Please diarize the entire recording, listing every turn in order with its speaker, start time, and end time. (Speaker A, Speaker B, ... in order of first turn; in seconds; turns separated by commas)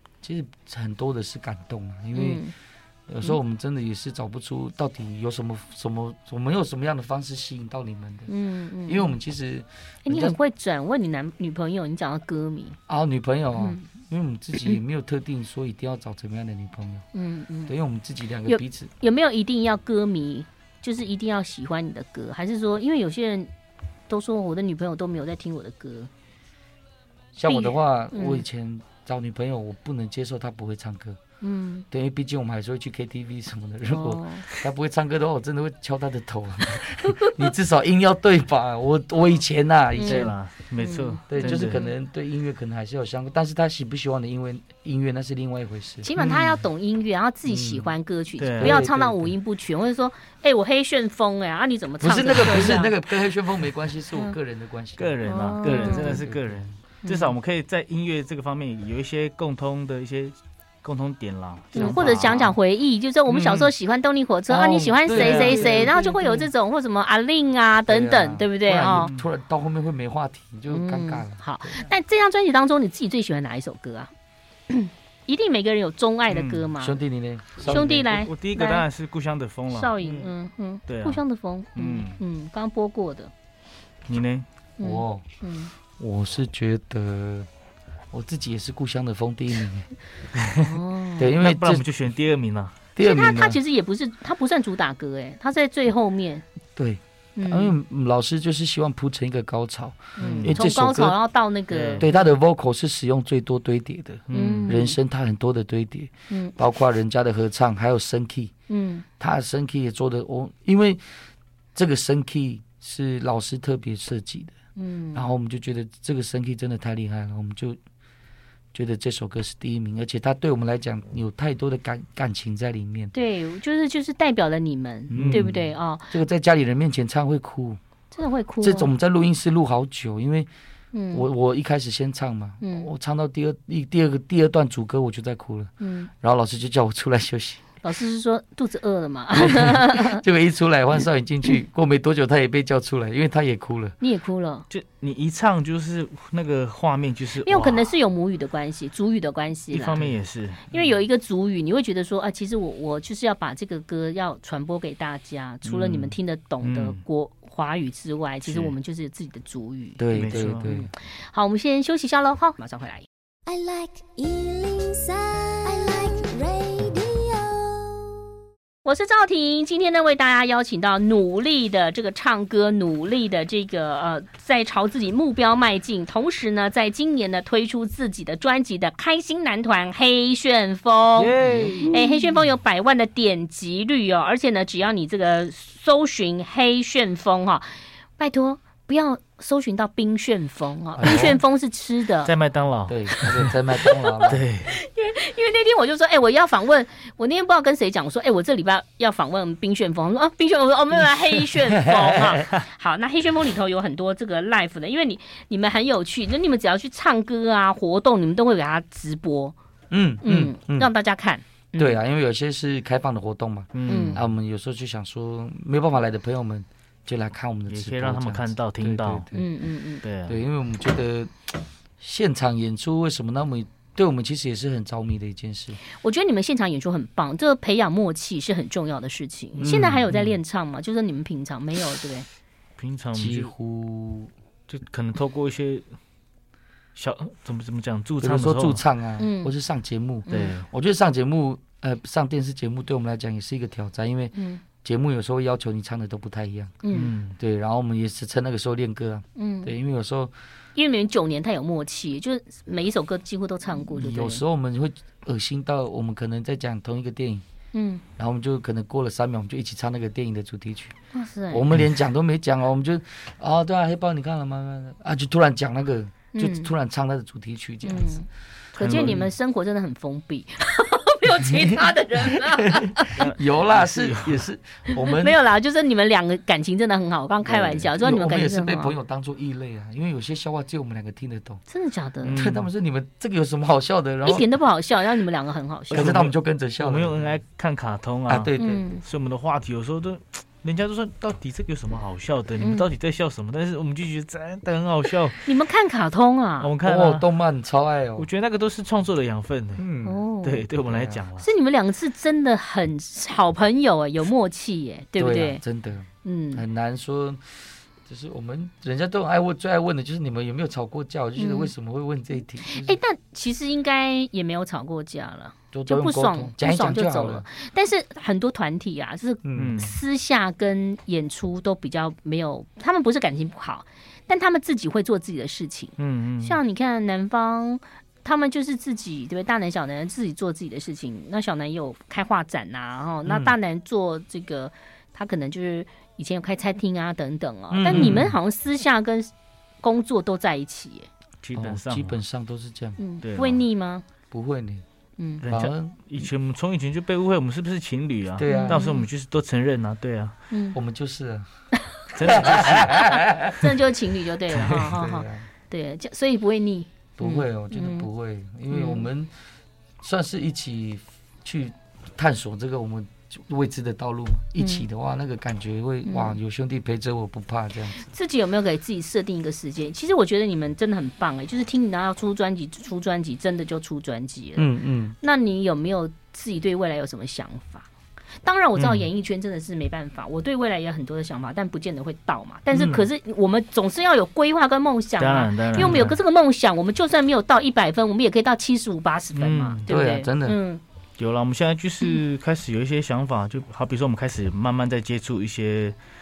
Speaker A: 0.2-2.4, Speaker B: 2.1-2.5, Speaker A: 3.1-8.3, Speaker B: 8.3-9.1, Speaker A: 8.8-10.4, Speaker B: 10.1-12.8, Speaker A: 12.9-17.1, Speaker B: 13.6-13.8, Speaker B: 17.1-17.7, Speaker A: 17.7-18.9, Speaker B: 18.5-23.5, Speaker B: 24.1-26.1, Speaker A: 27.3-31.2, Speaker B: 27.5-28.4, Speaker B: 31.4-31.9, Speaker A: 31.9-40.3, Speaker B: 33.9-34.5, Speaker B: 37.0-37.4, Speaker B: 40.0-41.9, Speaker C: 40.0-41.8, Speaker A: 41.3-46.6, Speaker B: 46.0-52.9, Speaker A: 47.5-47.9, Speaker C: 48.4-48.9, Speaker A: 48.6-49.3, Speaker A: 52.0-56.6, Speaker C: 55.0-62.5, Speaker B: 55.2-56.2, Speaker B: 57.0-57.3, Speaker A: 61.7-62.3, Speaker B: 61.7-69.1, Speaker A: 63.3-63.7, Speaker A: 64.5-66.4, Speaker C: 65.1-66.3, Speaker A: 67.9-71.9, Speaker C: 68.9-69.3, Speaker B: 70.7-74.1, Speaker B: 74.7-77.0, Speaker C: 76.3-76.7, Speaker A: 76.8-77.9, Speaker C: 77.6-80.3, Speaker B: 77.7-78.8, Speaker B: 79.7-83.3, Speaker C: 80.9-81.2, Speaker C: 81.8-82.2, Speaker C: 84.1-84.5, Speaker B: 84.8-85.7, Speaker A: 84.8-85.2, Speaker A: 86.0-87.5, Speaker A: 88.1-89.9, Speaker C: 90.3-90.7, Speaker B: 90.6-91.3, Speaker A: 91.2-91.9, Speaker C: 91.4-92.8, Speaker A: 93.0-93.6, Speaker B: 93.0-96.5, Speaker A: 96.8-101.2, Speaker B: 97.4-97.8, Speaker C: 100.2-100.5, Speaker B: 100.2-102.1, Speaker C: 101.7-102.1, Speaker A: 102.0-108.5, Speaker C: 104.3-104.8, Speaker B: 104.3-105.0, Speaker B: 108.7-109.1, Speaker A: 109.2-111.0, Speaker A: 111.8-114.5, Speaker B: 114.8-115.2, Speaker A: 115.2-117.8, Speaker A: 118.7-123.1, Speaker B: 123.1-126.1, Speaker A: 125.1-127.8, Speaker C: 125.1-125.5, Speaker B: 128.1-128.9, Speaker A: 128.6-130.5, Speaker B: 130.9-131.2, Speaker A: 131.1-137.6, Speaker B: 132.6-132.9, Speaker B: 135.8-136.1, Speaker B: 137.8-140.2, Speaker A: 139.3-144.0, Speaker B: 144.0-144.7, Speaker C: 144.7-147.9, Speaker B: 147.4-150.0, Speaker C: 149.7-150.7, Speaker B: 150.7-160.0, Speaker A: 155.6-156.1, Speaker C: 156.6-157.0, Speaker C: 158.4-158.7, Speaker A: 160.0-160.9, Speaker C: 160.1-160.7, Speaker B: 160.6-163.1, Speaker D: 163.5-168.2, Speaker B: 168.8-181.3, Speaker C: 181.2-181.9, Speaker A: 181.3-182.1, Speaker B: 181.9-187.7, Speaker B: 188.2-192.3, Speaker A: 191.0-191.4, Speaker C: 192.2-193.5, Speaker A: 192.9-194.4, Speaker C: 194.3-194.7, Speaker B: 194.7-209.6, Speaker A: 201.5-202.5, Speaker A: 209.9-210.9, Speaker B: 210.2-211.6, Speaker A: 211.8-219.5, Speaker C: 213.7-214.2, Speaker B: 213.9-214.2, Speaker C: 217.7-219.3, Speaker B: 219.3-220.0, Speaker C: 220.0-220.4, Speaker A: 220.3-225.8, Speaker B: 225.9-232.3, Speaker A: 229.6-230.1, Speaker C: 229.7-230.3, Speaker C: 232.8-233.5, Speaker A: 233.1-234.3, Speaker C: 234.7-235.9, Speaker C: 237.0-238.8, Speaker A: 238.2-246.8, Speaker B: 239.2-239.5, Speaker B: 240.3-240.6, Speaker C: 240.3-240.7, Speaker B: 244.3-244.6, Speaker B: 246.8-247.1, Speaker C: 246.9-247.4, Speaker A: 247.3-250.3, Speaker B: 249.4-249.7, Speaker B: 250.8-254.4, Speaker A: 253.9-257.4, Speaker B: 257.7-258.0, Speaker A: 258.2-260.9, Speaker B: 261.1-261.6, Speaker A: 261.5-268.2, Speaker B: 266.3-266.7, Speaker B: 267.8-273.2, Speaker C: 268.8-269.3, Speaker A: 268.9-269.2, Speaker A: 271.4-275.4, Speaker C: 273.2-274.4, Speaker B: 274.9-278.9, Speaker C: 277.6-277.8, Speaker A: 277.8-281.6, Speaker B: 281.7-282.4, Speaker C: 282.2-282.7, Speaker A: 282.4-284.5, Speaker B: 284.2-286.1, Speaker C: 285.9-288.5, Speaker A: 285.9-287.4, Speaker A: 288.3-288.9, Speaker B: 288.6-289.0, Speaker C: 289.0-295.4, Speaker B: 292.6-292.9, Speaker B: 295.4-296.7, Speaker C: 296.6-297.3, Speaker A: 296.8-298.3, Speaker C: 298.2-299.9, Speaker A: 299.8-300.2, Speaker B: 300.0-300.7, Speaker C: 300.4-301.5, Speaker A: 300.9-301.2, Speaker B: 301.4-305.6, Speaker A: 305.2-313.0, Speaker B: 306.2-306.6, Speaker B: 311.4-311.7, Speaker B: 312.7-339.3, Speaker A: 315.7-317.5, Speaker A: 319.4-319.9, Speaker C: 319.6-320.0, Speaker C: 326.0-326.6, Speaker A: 333.2-333.5, Speaker A: 337.7-338.4, Speaker C: 337.9-338.4, Speaker B: 339.8-341.1, Speaker C: 341.4-342.2, Speaker A: 341.6-343.0, Speaker B: 343.0-344.1, Speaker C: 343.2-343.6, Speaker A: 344.3-344.8, Speaker B: 345.2-345.4, Speaker C: 345.4-350.4, Speaker A: 345.5-346.0, Speaker A: 348.4-348.9, Speaker B: 348.5-349.1, Speaker B: 350.5-350.8, Speaker A: 350.7-351.5, Speaker C: 352.1-353.1, Speaker A: 352.2-353.7, Speaker B: 352.3-358.1, Speaker C: 354.6-354.9, Speaker A: 354.6-355.5, Speaker A: 357.2-359.3, Speaker B: 358.7-359.1, Speaker A: 360.0-368.0, Speaker B: 364.6-364.9, Speaker B: 366.1-366.4, Speaker B: 368.0-374.7, Speaker A: 374.6-375.2, Speaker B: 375.2-377.9, Speaker B: 378.4-390.8, Speaker C: 378.8-379.1, Speaker A: 382.7-383.1, Speaker C: 385.2-386.2, Speaker A: 385.8-386.1, Speaker C: 389.3-389.9, Speaker A: 389.9-390.6, Speaker C: 391.2-396.0